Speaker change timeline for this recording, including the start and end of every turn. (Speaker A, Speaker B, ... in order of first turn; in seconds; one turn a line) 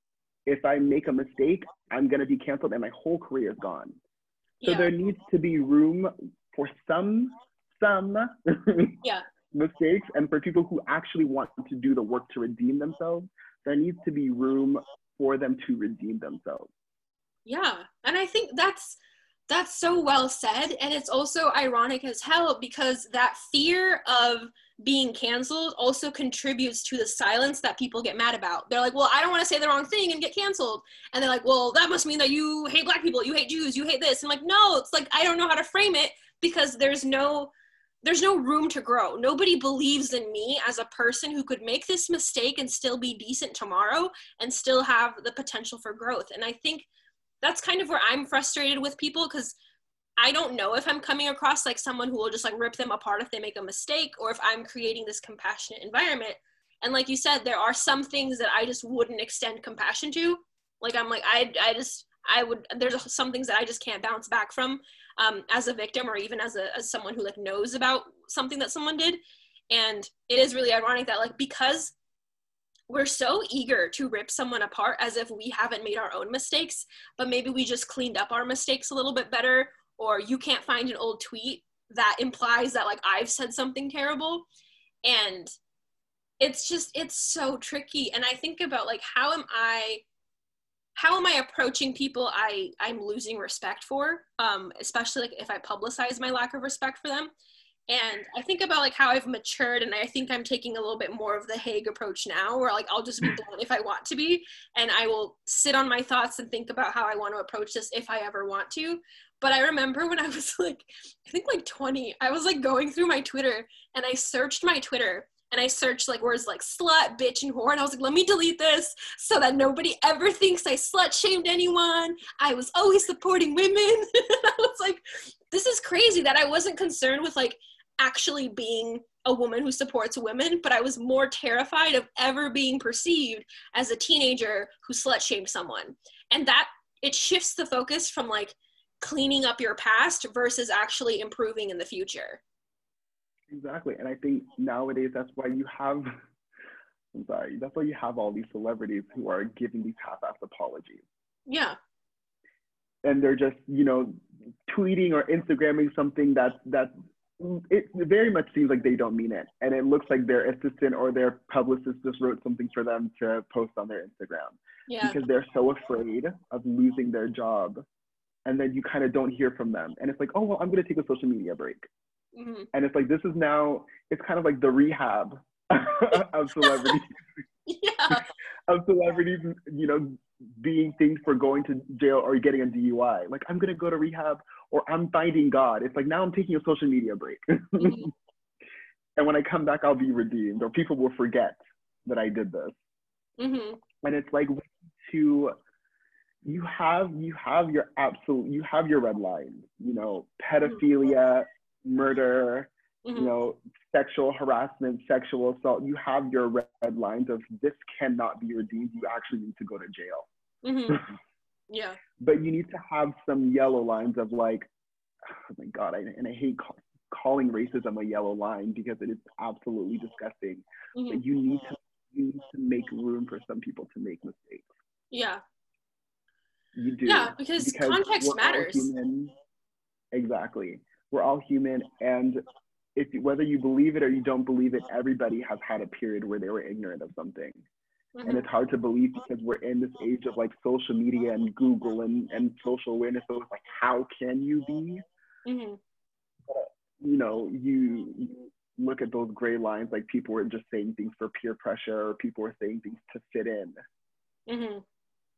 Speaker A: 0.5-4.0
Speaker B: 4.6-4.9
Speaker A: 4.6-9.0
Speaker A: 9.5-16.7
Speaker B: 17.4-37.5
Speaker B: 38.0-46.9
Speaker B: 47.4-49.6
Speaker B: 50.2-69.2
Speaker B: 69.7-71.9
Speaker B: 72.9-84.5
Speaker B: 85.0-85.5
Speaker B: 86.4-90.0
Speaker B: 91.0-97.3
Speaker B: 97.9-142.4
Speaker A: 143.5-146.1
Speaker A: 147.1-151.0
Speaker B: 151.5-151.8
Speaker A: 153.0-167.8
Speaker B: 164.9-165.2
Speaker A: 168.4-171.9
Speaker B: 172.3-172.7
Speaker A: 172.7-177.2
Speaker B: 176.6-176.9
Speaker B: 177.7-178.3
Speaker A: 178.1-188.1
Speaker B: 187.8-188.1
Speaker A: 189.2-192.8
Speaker B: 193.4-193.8
Speaker A: 194.0-195.6
Speaker A: 196.4-210.3
Speaker B: 203.1-203.3
Speaker B: 210.6-211.0
Speaker B: 211.7-212.0
Speaker A: 212.2-214.7
Speaker A: 215.2-224.7
Speaker B: 220.9-221.2
Speaker B: 225.1-225.4
Speaker A: 226.8-229.3
Speaker B: 227.1-228.9
Speaker A: 230.1-232.4
Speaker A: 232.9-237.6
Speaker B: 238.2-238.5
Speaker A: 238.2-245.1
Speaker B: 245.4-245.8
Speaker A: 246.5-253.8
Speaker B: 254.5-254.8